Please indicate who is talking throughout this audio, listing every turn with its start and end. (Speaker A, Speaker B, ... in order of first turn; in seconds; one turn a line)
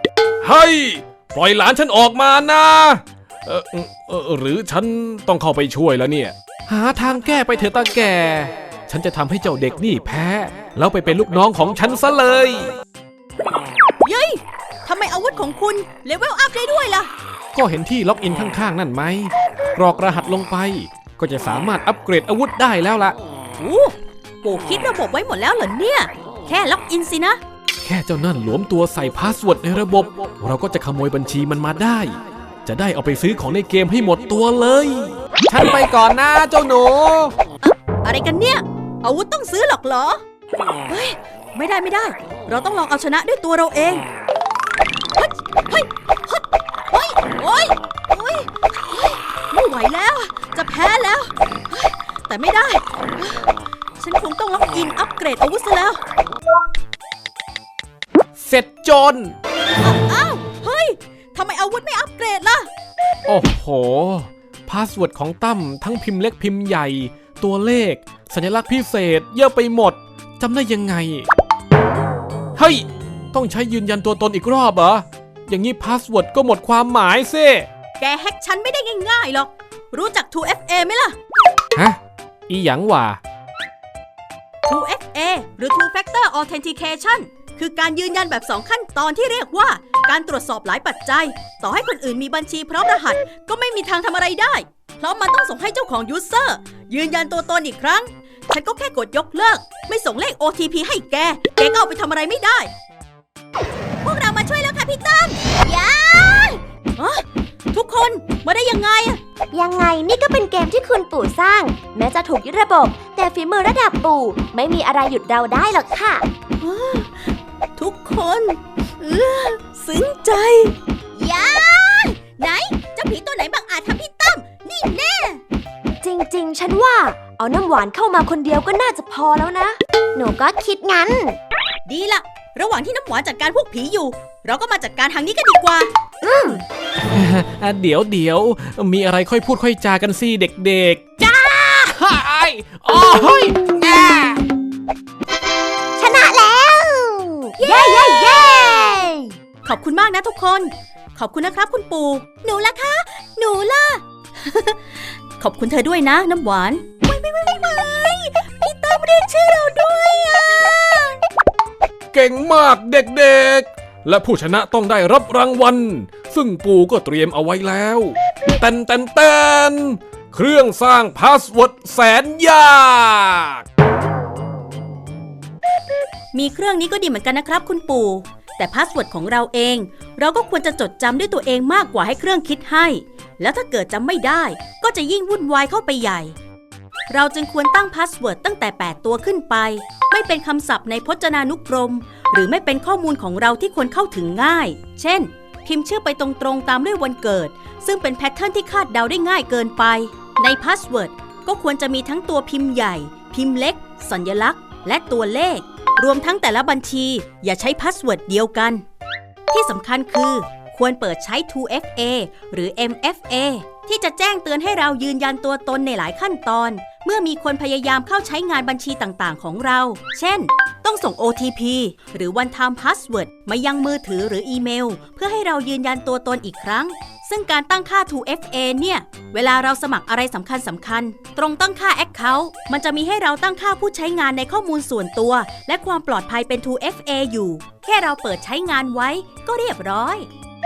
Speaker A: 0.4-12.7
Speaker B: 14.0-17.1
Speaker A: 17.5-23.1
Speaker B: 23.6-27.4
Speaker A: 27.8-37.3
Speaker B: 37.6-40.2
Speaker B: 40.9-44.0
Speaker B: 45.1-53.5
Speaker B: 54.0-56.0
Speaker A: 58.4-59.4
Speaker B: 59.8-62.7
Speaker A: 63.3-71.3
Speaker A: 72.5-77.7
Speaker B: 78.0-81.1
Speaker A: 81.7-83.2
Speaker B: 84.7-102.7
Speaker B: 104.0-109.2
Speaker C: 109.5-116.2
Speaker B: 116.6-125.4
Speaker C: 126.0-131.4
Speaker B: 131.8-135.9
Speaker C: 136.2-136.6
Speaker A: 137.1-144.4
Speaker C: 146.0-149.3
Speaker B: 147.6-148.9
Speaker B: 149.6-161.2
Speaker A: 162.1-173.6
Speaker B: 176.3-186.3
Speaker B: 187.1-208.8
Speaker B: 209.5-240.3